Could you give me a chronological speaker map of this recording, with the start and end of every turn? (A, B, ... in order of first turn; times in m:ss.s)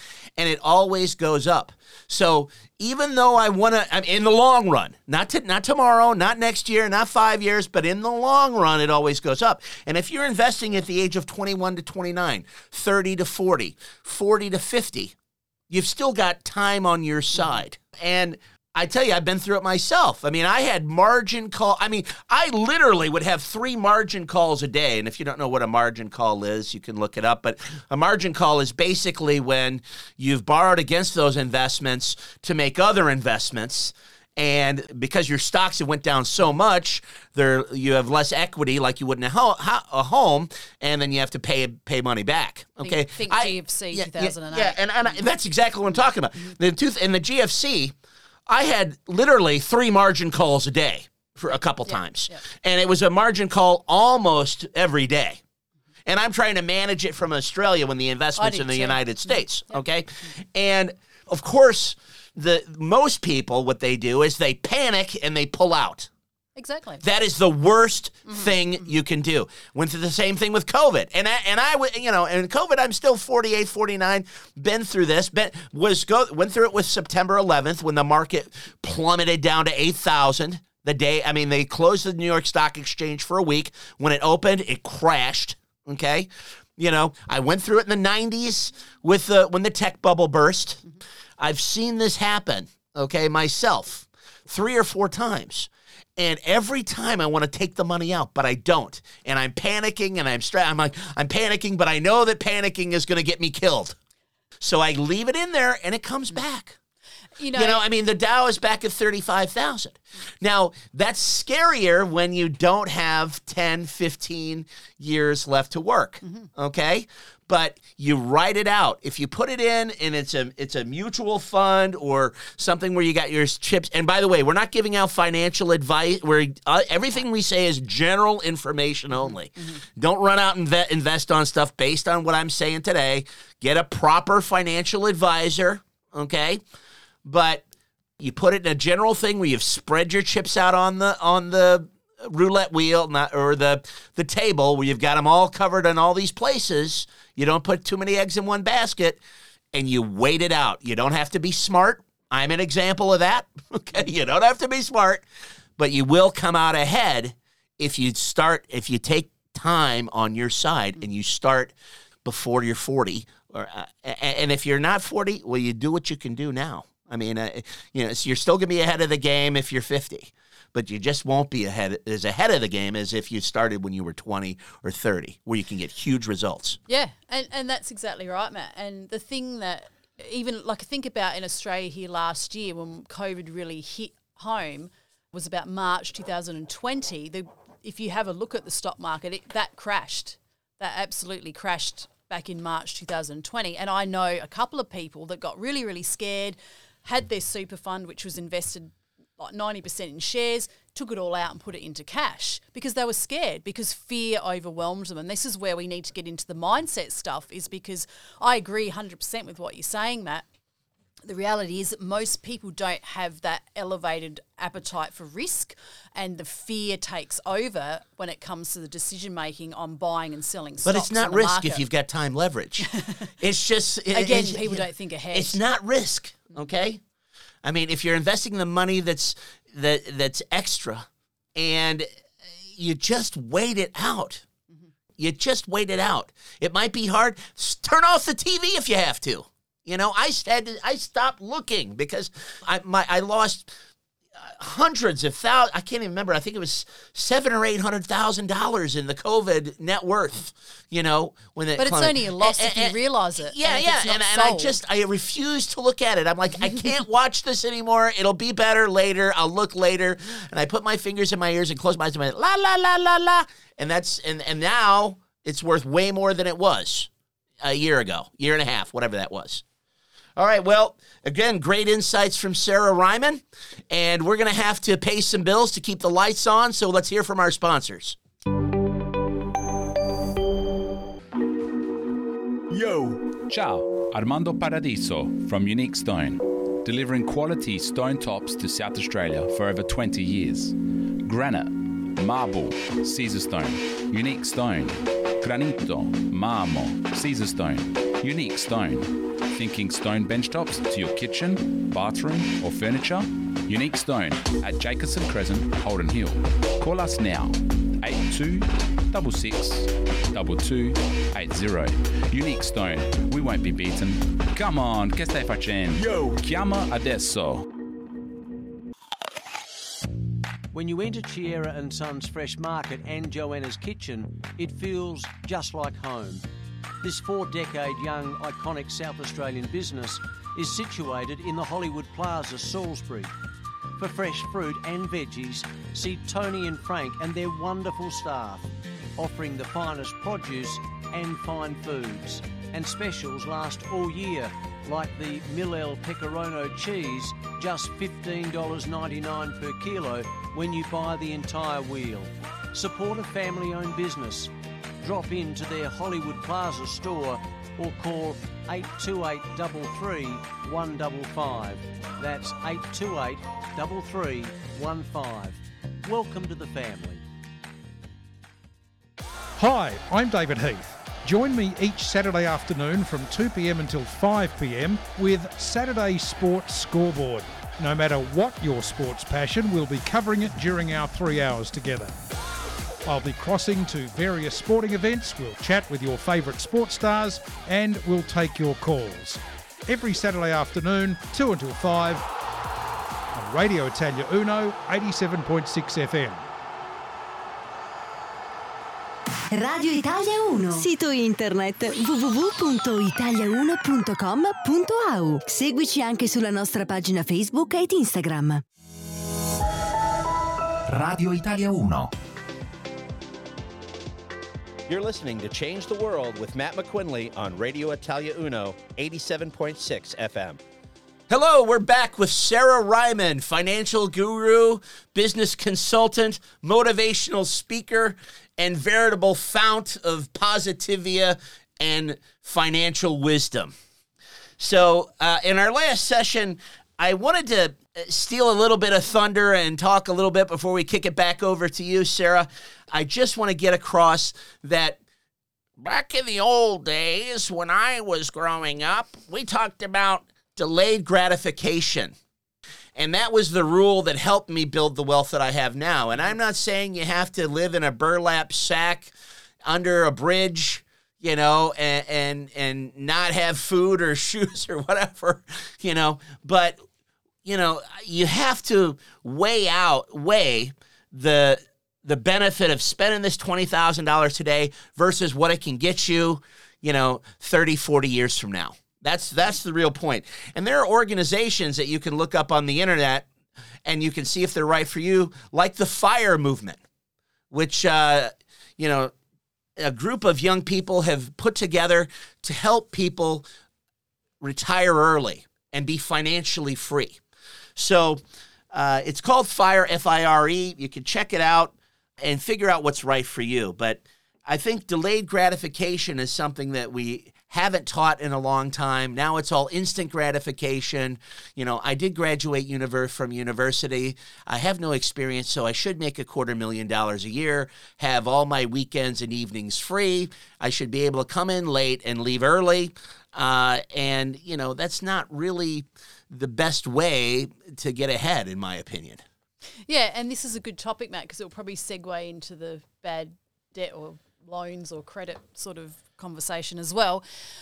0:00.4-0:15.1 A
0:15.7-0:47.9 A
0:42.8-0:45.2 B
0:48.5-0:55.4 A
0:51.9-0:52.4 B
0:56.0-1:06.1 A
0:58.4-0:59.8 B
1:06.6-1:07.0 B
1:07.0-1:30.8 A
1:08.3-1:08.6 B
1:31.4-1:44.0 A
1:44.6-1:46.8 A
1:47.4-1:47.8 B
1:47.5-2:16.6 A
2:17.2-2:17.6 A
2:18.2-2:29.2 A
2:29.7-2:35.2 A
2:35.8-2:41.7 A
2:42.2-2:56.8 A
2:56.9-3:30.4 B
3:31.2-3:41.8 B
3:40.8-3:47.0 A
3:44.1-3:45.6 B
3:47.6-3:54.4 A
3:55.2-4:03.7 A
4:04.4-4:27.1 A
4:11.8-4:14.8 B
4:27.6-4:29.6 A
4:30.4-4:38.2 A
4:42.7-5:17.7 C
5:20.7-5:26.4 D
5:27.0-5:33.3 D
5:34.0-6:07.2 D
6:09.6-6:22.2 E
6:23.0-6:32.2 E
6:33.3-6:36.4 E
6:39.5-6:48.6 F
6:50.9-6:52.1 A
6:54.9-7:00.6 A
7:01.3-7:13.7 A
7:14.6-7:25.0 A
7:25.8-7:32.1 A
7:32.9-7:39.1 A
7:39.6-7:46.8 A
7:47.4-8:03.3 A
8:03.8-8:06.8 A
8:07.5-8:09.1 A
8:09.8-8:13.4 A
8:14.4-8:17.2 A
8:17.8-8:49.2 A
8:49.9-8:57.2 B